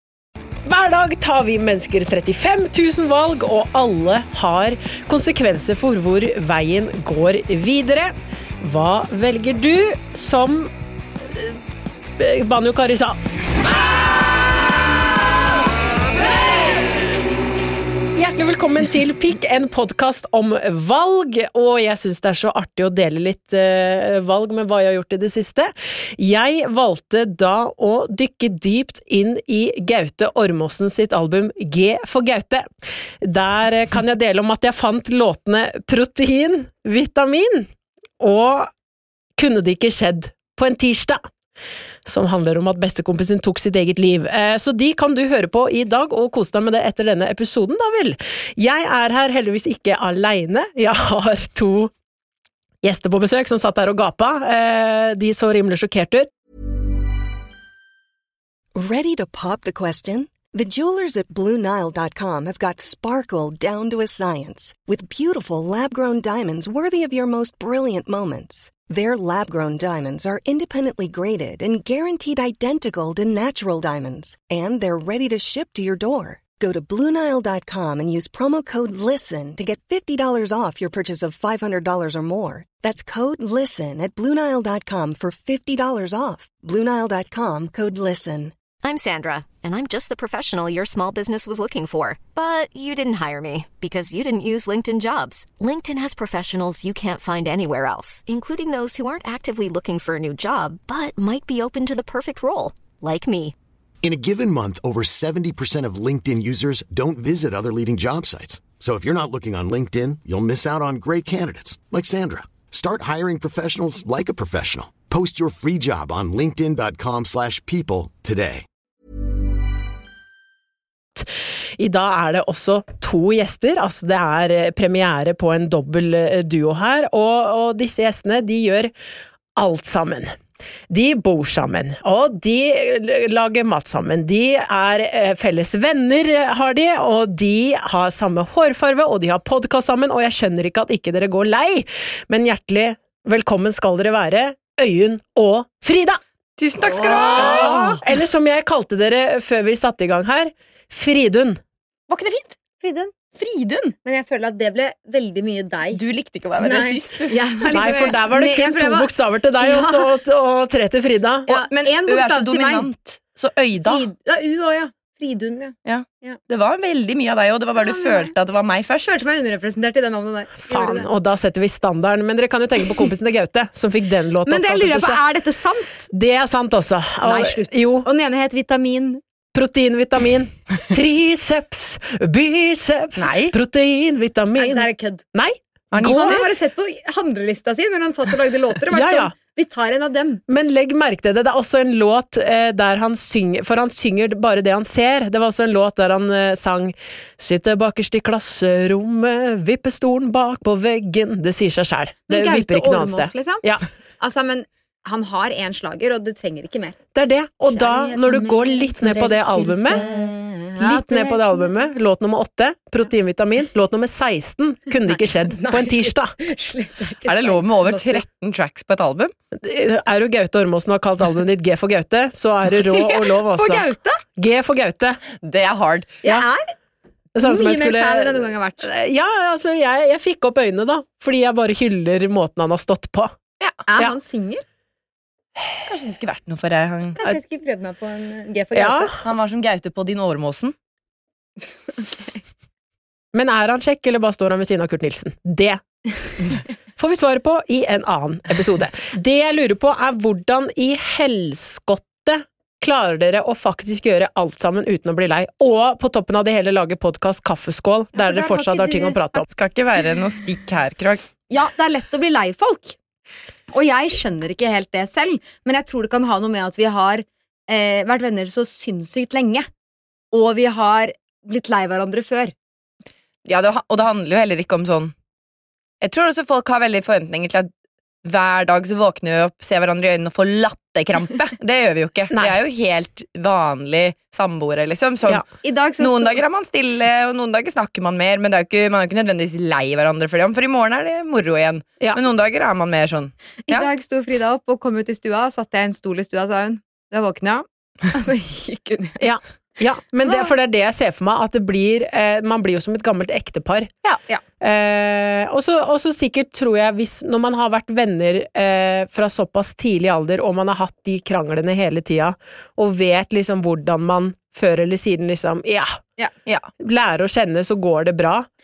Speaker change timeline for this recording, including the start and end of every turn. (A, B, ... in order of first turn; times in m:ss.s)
0:00.7-0:10.7 A
0:11.3-0:11.6 A
0:12.2-0:14.7 A
0:16.2-0:16.9 A
0:18.2-0:32.7 A
0:33.2-0:38.7 A
0:39.4-0:41.3 A
0:42.1-0:51.9 A
0:52.8-0:56.3 A
0:58.8-1:28.6 B
1:28.8-1:43.5 C
1:44.0-1:58.7 D
2:01.2-2:08.9 A
2:09.6-2:10.3 A
2:10.9-2:26.2 A
2:26.6-2:28.0 E
2:26.8-2:28.0 F
2:27.2-2:31.6 A
2:32.1-2:33.3 F
2:33.4-2:33.9 E
2:33.9-2:36.0 F
2:35.9-2:37.4 E
2:36.6-2:40.1 F
2:37.7-2:41.5 A
2:41.5-2:42.9 F
2:41.5-2:44.0 E
2:43.8-2:46.4 F
2:45.9-2:49.1 E
2:47.8-2:48.3 F
2:49.1-2:51.1 F
2:50.7-2:55.2 A
2:54.5-2:56.1 F
2:56.1-2:58.1 A
2:57.2-2:59.2 F
2:59.6-3:06.4 A
3:03.2-3:03.6 E
3:04.6-3:05.2 F
3:05.9-3:06.5 E
3:06.0-3:10.4 F
3:08.9-3:09.3 A
3:10.5-3:23.9 A
3:22.3-3:23.6 F
3:24.2-3:27.0 F
3:27.1-3:30.0 A
3:27.7-3:31.7 F
3:30.8-3:36.3 A
3:35.1-3:38.2 F
3:37.3-3:39.3 E
3:39.6-3:45.2 A
3:42.8-3:44.2 F
3:45.4-3:46.2 E
3:46.2-3:46.7 F
3:47.4-3:53.3 A
3:47.4-3:48.9 F
3:53.9-3:54.6 F
3:55.9-3:57.2 E
3:57.2-3:59.2 F
3:58.8-3:59.1 A
3:59.2-4:00.8 E
4:02.0-4:02.4 F
4:03.3-4:05.8 A
4:07.0-4:19.5 A
4:18.2-4:19.4 F
4:19.5-4:21.2 E
4:21.5-4:23.0 F
4:23.7-4:29.7 F
4:30.3-4:32.5 F
4:33.4-4:35.1 E
4:36.0-4:37.7 E
4:38.2-4:45.4 E
4:45.6-4:46.4 F
4:46.0-4:53.9 E
4:53.7-4:59.3 F
4:59.2-5:03.9 A
5:00.2-5:00.5 F
5:04.0-5:04.4 F
5:04.6-5:16.0 A
5:16.8-5:18.5 A